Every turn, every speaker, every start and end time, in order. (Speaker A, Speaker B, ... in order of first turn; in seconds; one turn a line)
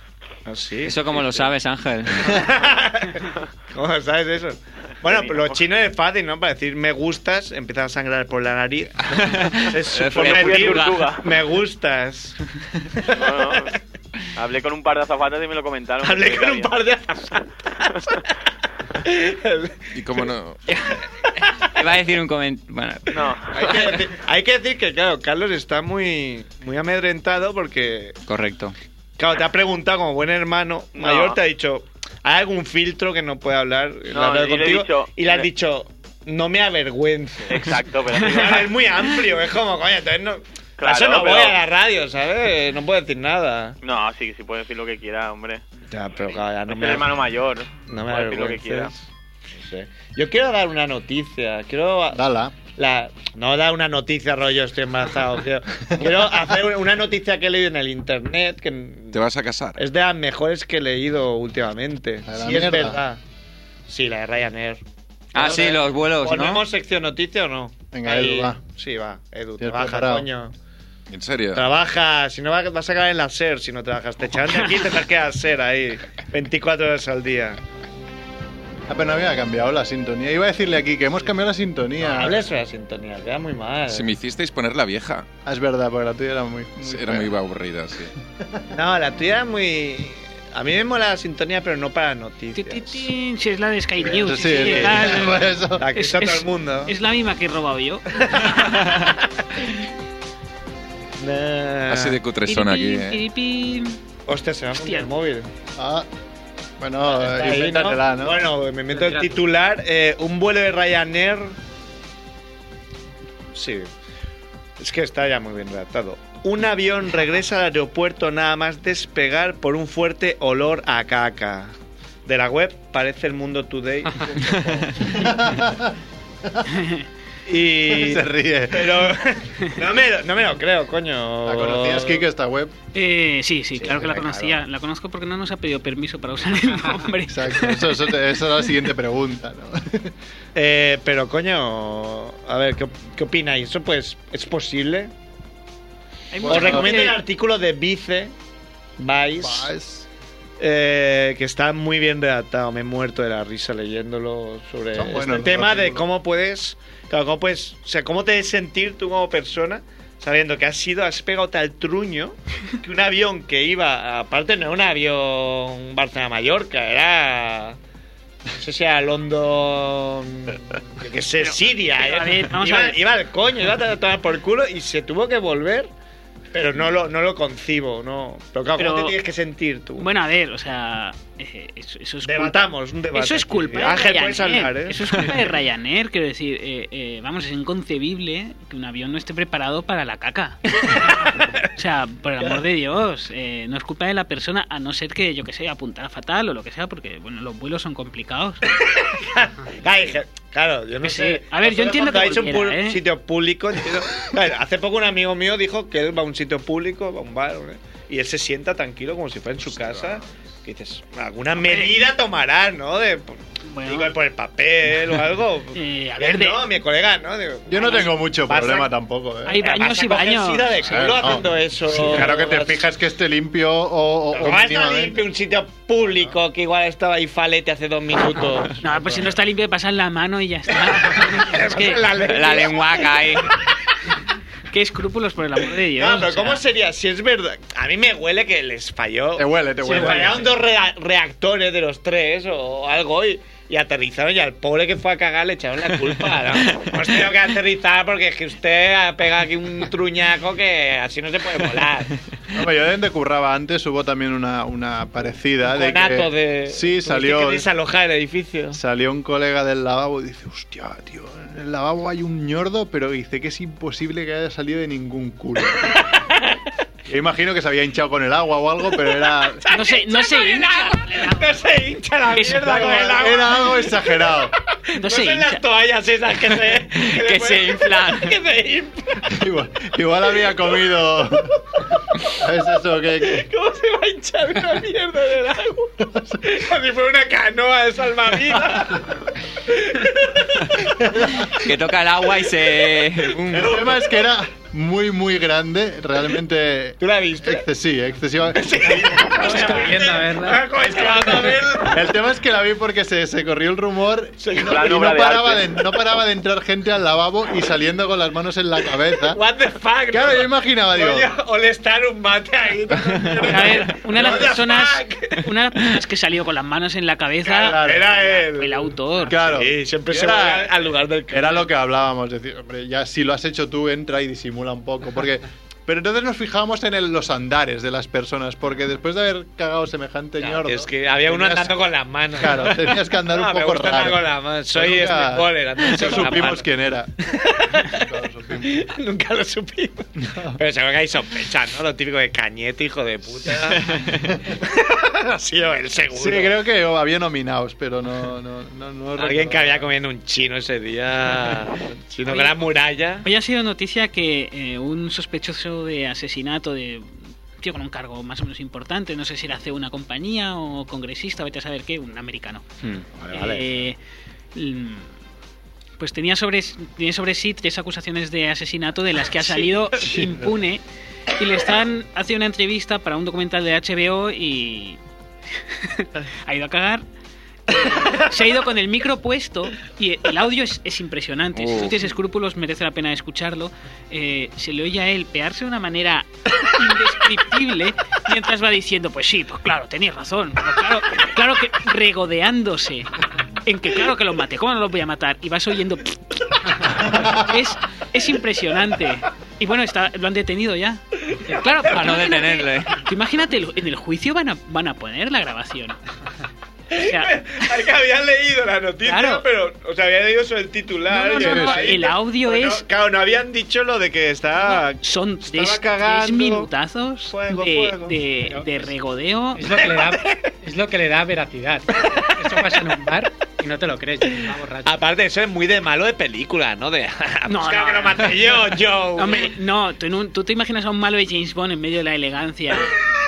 Speaker A: 0.5-1.5
Speaker B: 0.8-2.4
Speaker A: 2.1-13.7
Speaker C: 5.0-5.6
Speaker B: 9.1-11.0
Speaker C: 10.1-11.3
Speaker C: 13.1-13.8
Speaker C: 14.3-16.7
Speaker A: 16.0-18.1
Speaker A: 19.0-20.3
Speaker D: 19.9-20.6
Speaker B: 20.7-23.2
Speaker A: 21.2-21.7
Speaker C: 23.1-23.9
Speaker A: 23.5-28.2
Speaker B: 28.2-28.7
Speaker A: 29.2-43.8
Speaker C: 31.0-31.4
Speaker C: 34.1-35.5
Speaker C: 37.5-38.7
Speaker C: 40.8-41.6
Speaker C: 43.8-45.6
Speaker A: 45.9-47.2
Speaker C: 46.3-48.9
Speaker A: 47.9-59.2
Speaker E: 52.1-52.5
Speaker D: 59.1-59.8
Speaker A: 59.8-63.2
Speaker E: 62.3-63.0
Speaker A: 63.9-64.8
Speaker B: 65.3-66.6
Speaker A: 65.3-70.5
Speaker E: 67.9-68.6
Speaker E: 69.6-70.3
Speaker D: 71.1-71.6
Speaker A: 71.5-77.6
Speaker E: 78.9-82.4
Speaker A: 82.0-84.1
Speaker D: 83.9-85.3
Speaker E: 85.4-87.3
Speaker D: 86.8-88.1
Speaker E: 88.4-88.7
Speaker A: 88.7-93.1
Speaker F: 92.5-98.0
Speaker E: 94.0-95.9
Speaker A: 94.2-96.9
Speaker A: 98.1-99.8
Speaker A: 101.2-102.2
Speaker D: 101.9-103.2
Speaker F: 102.4-104.0
Speaker A: 104.3-105.5
Speaker F: 104.8-105.1
Speaker E: 105.8-106.1
Speaker E: 106.8-108.5
Speaker A: 107.0-111.6
Speaker A: 113.5-113.9
Speaker A: 114.8-121.7
Speaker A: 122.2-125.3
Speaker E: 125.0-126.7
Speaker F: 126.7-127.0
Speaker A: 127.5-132.3
Speaker E: 127.8-129.1
Speaker E: 131.4-132.7
Speaker F: 132.9-138.0
Speaker A: 133.8-134.6
Speaker E: 137.3-140.1
Speaker A: 140.5-145.1
Speaker F: 146.3-147.2
Speaker E: 146.4-147.0
Speaker A: 146.4-148.3
Speaker A: 149.0-149.7
Speaker E: 149.4-150.1
Speaker A: 150.6-167.8
Speaker E: 154.9-156.1
Speaker A: 168.5-175.9
Speaker F: 171.4-173.0
Speaker A: 176.5-180.1
Speaker F: 178.8-179.2
Speaker F: 180.0-198.6
Speaker A: 182.2-185.5
Speaker A: 190.9-191.7
Speaker A: 198.7-218.9
Speaker F: 201.0-203.0
Speaker F: 211.6-212.0
Speaker F: 213.7-214.1
Speaker F: 215.7-216.7
Speaker E: 217.7-219.6
Speaker F: 219.4-220.9
Speaker A: 219.6-222.8
Speaker E: 220.8-225.2
Speaker A: 224.3-229.3
Speaker F: 228.8-232.1
Speaker A: 231.0-233.4
Speaker B: 232.2-233.5
Speaker F: 234.7-236.6
Speaker A: 235.9-252.2
Speaker E: 239.3-240.6
Speaker F: 239.8-240.2
Speaker E: 252.5-257.6
Speaker A: 255.7-258.8
Speaker E: 258.7-266.0
Speaker A: 265.9-266.6
Speaker E: 267.1-269.6
Speaker A: 269.0-274.3
Speaker F: 269.7-271.6
Speaker F: 272.3-273.0
Speaker E: 272.6-274.5
Speaker A: 274.9-279.3
Speaker F: 274.9-275.6
Speaker B: 276.9-278.4
Speaker E: 279.2-281.6
Speaker E: 282.3-283.5
Speaker A: 283.2-291.5
Speaker E: 286.0-286.4
Speaker E: 291.0-291.5
Speaker B: 291.5-293.6
Speaker A: 292.8-294.1
Speaker E: 293.5-299.0
Speaker A: 297.0-297.6
Speaker A: 298.5-302.1
Speaker G: 299.1-301.6
Speaker E: 301.9-309.4
Speaker A: 304.4-305.1
Speaker C: 304.5-305.7
Speaker A: 309.1-315.5
Speaker E: 310.1-311.3
Speaker F: 313.4-319.4
Speaker A: 317.5-321.6
Speaker E: 317.6-318.1
Speaker E: 319.3-320.7
Speaker E: 321.3-331.8
Speaker A: 330.4-336.7
Speaker E: 332.3-338.8
Speaker A: 337.2-338.0
Speaker A: 338.6-346.5
Speaker E: 340.2-340.6
Speaker B: 343.9-344.2
Speaker E: 346.1-349.9
Speaker A: 349.2-353.3
Speaker F: 352.2-352.6
Speaker F: 353.2-362.6
Speaker A: 362.9-363.8
Speaker F: 363.3-364.0
Speaker F: 364.5-365.1
Speaker F: 366.0-370.8
Speaker A: 369.4-370.2
Speaker F: 371.4-375.0
Speaker F: 375.5-377.0
Speaker F: 377.7-393.1
Speaker A: 377.8-378.2
Speaker B: 381.6-381.9
Speaker F: 393.6-406.0
Speaker A: 401.2-402.2
Speaker B: 401.8-403.0
Speaker A: 406.9-416.7
Speaker F: 407.0-407.3
Speaker F: 409.0-409.4
Speaker F: 411.1-412.8
Speaker E: 411.4-412.0
Speaker F: 414.7-419.7
Speaker A: 417.3-418.2
Speaker G: 419.5-424.9
Speaker A: 419.8-420.4
Speaker A: 422.4-422.8
Speaker A: 424.4-429.5
Speaker F: 427.4-428.4
Speaker F: 429.1-433.0